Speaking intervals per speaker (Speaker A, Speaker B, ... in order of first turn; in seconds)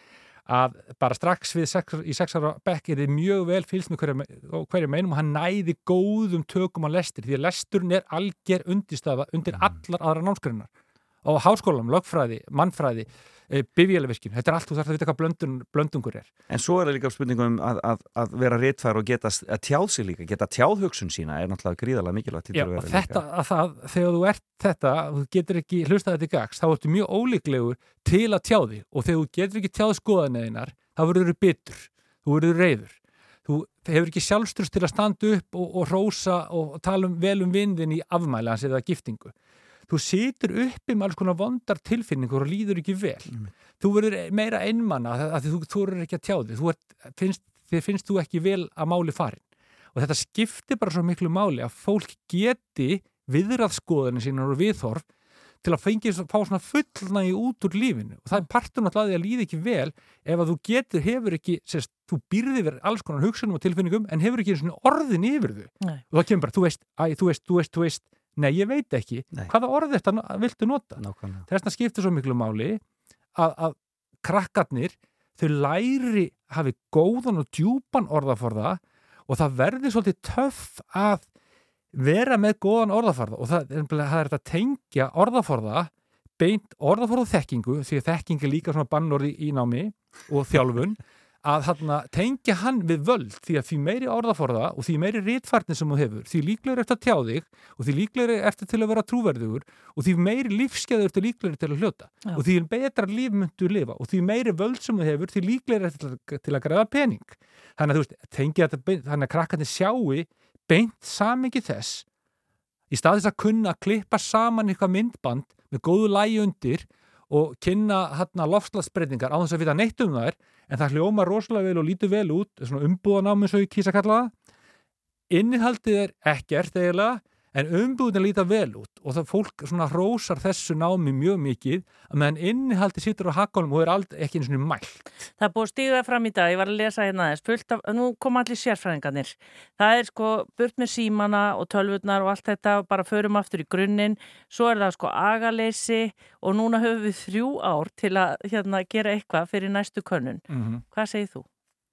Speaker A: 0.5-10.7, 11.2-16.3, 22.5-39.3, 39.9-49.4, 49.9-55.0, 55.6-72.8, 73.3-81.3, 81.9-112.0, 112.9-124.3, 125.3-135.1, 150.5-150.8
Speaker B: 16.5-23.2, 71.0-71.5
Speaker C: 135.4-151.4